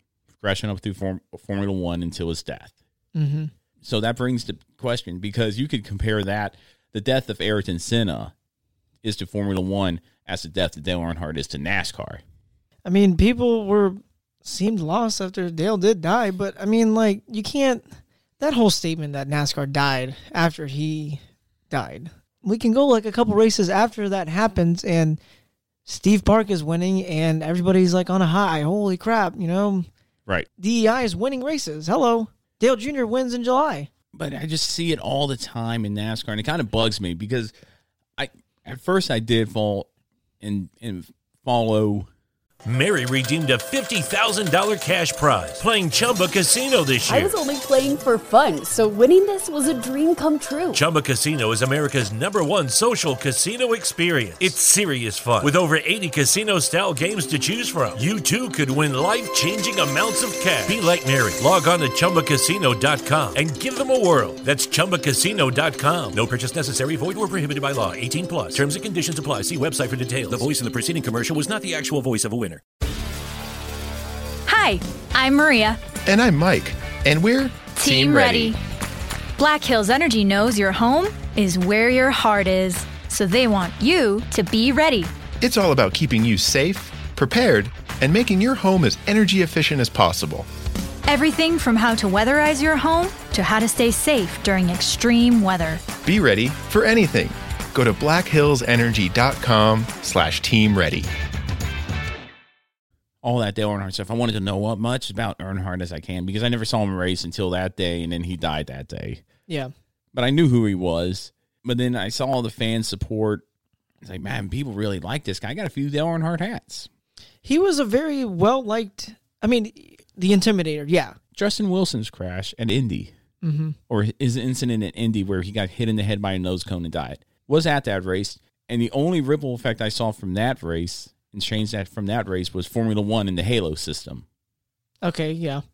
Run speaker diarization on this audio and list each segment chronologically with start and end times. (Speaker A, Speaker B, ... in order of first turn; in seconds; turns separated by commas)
Speaker A: 0.4-2.7, Speaker B: 3.1-3.5, Speaker A: 3.8-8.3, Speaker A: 9.0-12.2, Speaker B: 12.8-17.8, Speaker B: 18.4-21.2, Speaker B: 21.7-25.2, Speaker B: 25.9-29.9, Speaker B: 30.6-33.9, Speaker A: 34.1-37.5, Speaker A: 38.2-39.9, Speaker A: 40.4-42.1, Speaker C: 42.6-47.4, Speaker D: 47.1-50.8, Speaker C: 50.7-72.6, Speaker E: 74.5-75.8, Speaker F: 76.0-78.5, Speaker E: 77.8-78.6, Speaker E: 79.4-85.1, Speaker F: 85.4-90.5, Speaker E: 91.1-95.8, Speaker F: 96.0-101.1, Speaker A: 103.2-109.2, Speaker A: 110.1-113.4, Speaker A: 114.0-116.9, Speaker B: 117.4-121.2, Speaker A: 121.3-123.1, Speaker B: 123.4-123.8, Speaker A: 123.9-134.2, Speaker B: 135.0-135.6